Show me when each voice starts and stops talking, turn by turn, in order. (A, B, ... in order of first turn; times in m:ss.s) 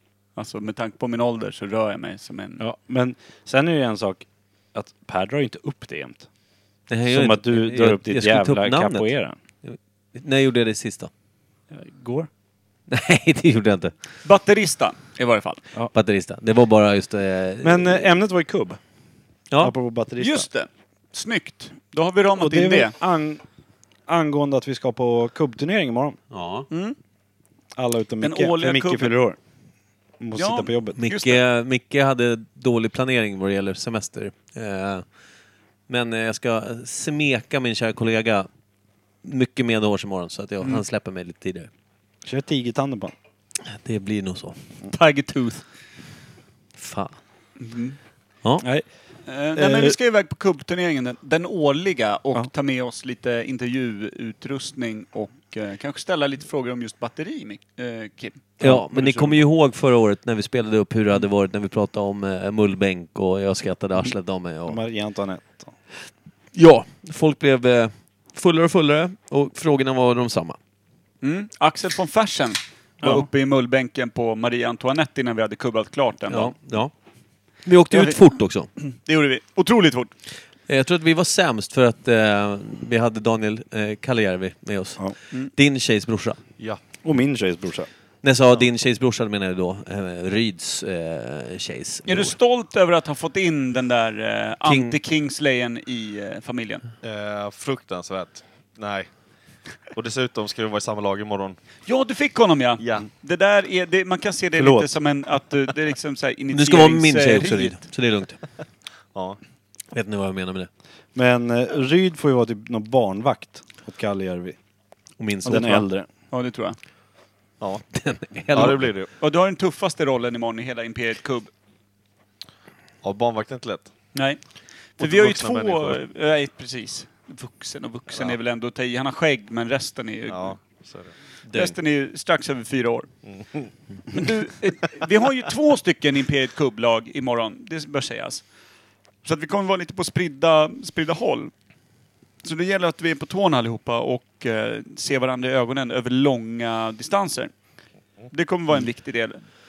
0:00.4-0:02.6 A
0:02.6-0:06.3 B
0:06.9-0:09.1 C
0:07.0-0:09.3 B
0:09.6-0:11.1 C
0:11.7-0:12.3 B
0:12.9-0:13.9 C
0:14.2-0:15.6 A
0:15.9-0:18.1 C
0:17.6-0:18.8 B
0:19.6-0:20.4 B
0:20.2-0:22.9 A
0:22.4-0:23.4 B
0:24.1-0:26.2 B
0:26.3-0:26.7 C
0:26.7-0:27.0 A
0:27.8-0:29.4 B
0:28.2-0:29.1 A
0:30.2-0:31.0 B
0:30.4-0:31.4 A
0:31.0-0:35.0 C
0:35.9-0:38.5 C
0:39.2-0:41.7 C
0:42.2-0:43.1 B
0:43.6-0:44.6 C
0:44.9-0:45.6 A
0:46.8-0:47.2 C
0:47.6-0:48.0 A
0:49.3-0:58.7 A
0:49.6-0:50.0 B
0:58.6-1:04.8 C
0:58.6-0:59.4 B
1:04.6-1:05.7 B
1:06.5-1:10.6 C
1:11.2-1:16.5 A
1:16.3-1:16.9 C
1:17.6-1:18.7 C
1:17.9-1:18.2 A
1:18.8-1:20.1 A
1:20.7-1:25.0 C
1:25.5-1:26.4 C
1:27.0-1:27.9 B
1:28.2-1:32.3 C
1:32.0-1:36.8 A
1:34.6-1:34.9 C
1:37.0-1:39.1 D
1:39.9-1:41.6 D
1:41.8-1:47.8 A
1:42.8-1:43.1 D
1:44.6-1:44.9 B
1:46.5-1:48.4 C
1:49.9-1:50.7 C
1:51.1-1:54.6 B
1:55.2-1:55.8 C
1:55.4-1:56.1 B
1:56.3-1:56.8 A
1:57.9-1:58.9 C
1:58.5-1:59.1 D
1:59.2-2:01.5 A
2:03.0-2:03.9 D
2:04.1-2:04.4 A
2:05.0-2:10.6 A
2:05.0-2:06.0 D
2:10.3-2:11.1 D
2:11.4-2:11.8 C
2:11.5-2:13.1 A
2:14.1-2:18.4 A
2:19.2-2:21.5 A
2:22.4-2:27.5 A
2:28.3-2:29.4 A